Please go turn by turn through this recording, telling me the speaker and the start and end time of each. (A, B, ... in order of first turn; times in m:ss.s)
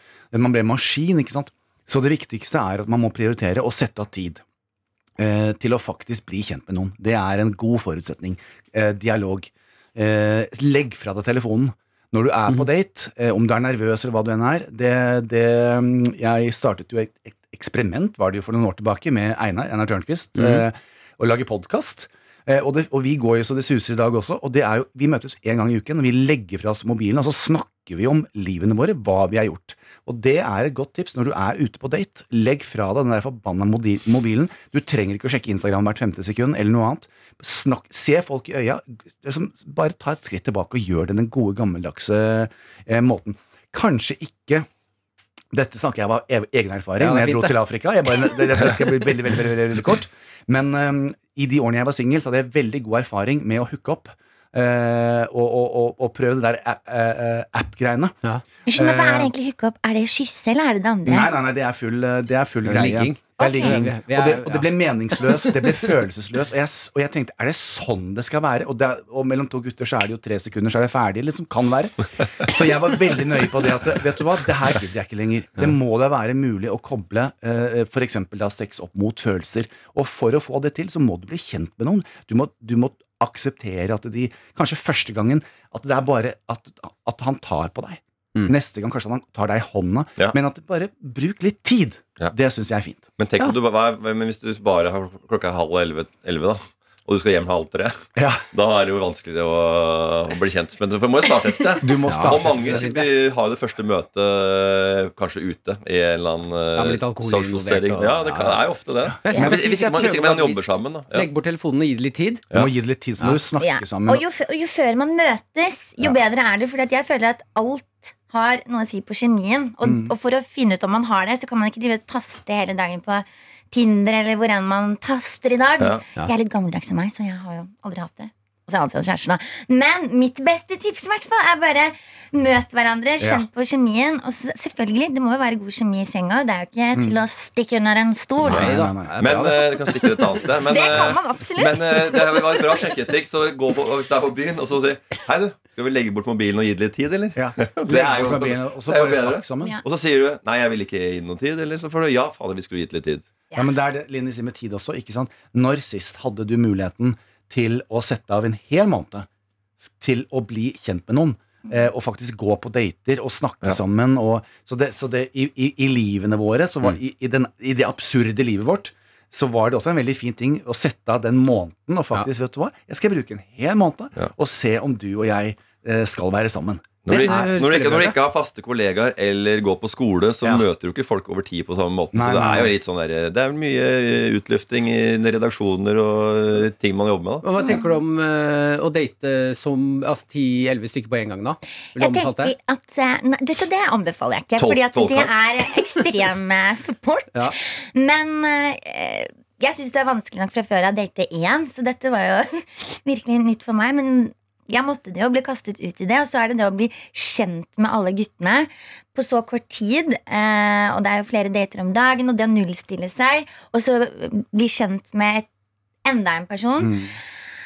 0:00.3-0:04.4 A
0:05.2-0:44.7 A
0:20.3-0:20.6 B
0:45.5-0:58.1 A
0:47.0-0:47.6 B
0:58.6-1:01.3 C
0:58.7-0:59.3 A
1:01.1-1:33.1 A
1:02.6-1:05.7 B
1:03.4-1:03.8 C
1:33.2-1:38.0 D
1:38.2-1:38.4 A
1:38.5-1:51.3 D
1:41.8-1:42.9 A
1:42.1-1:43.1 B
1:46.8-1:48.7 B
1:49.1-1:49.6 A
1:49.2-1:52.4 B
1:52.5-1:54.2 A
1:53.6-2:18.6 C
1:59.8-2:00.1 A
2:13.2-2:13.4 A
2:18.4-2:33.2 D
2:18.5-2:19.1 A
2:18.5-2:19.7 B
2:20.7-2:22.5 C
2:27.3-2:29.8 A
2:33.5-2:39.3 A
2:40.0-2:57.3 A
2:57.0-3:07.4 D
2:57.1-2:58.2 B
3:02.1-3:02.7 A
3:07.4-3:12.5 B
3:11.9-3:35.5 C
3:14.6-3:15.4 D
3:36.0-3:37.0 C
3:36.8-3:37.1 A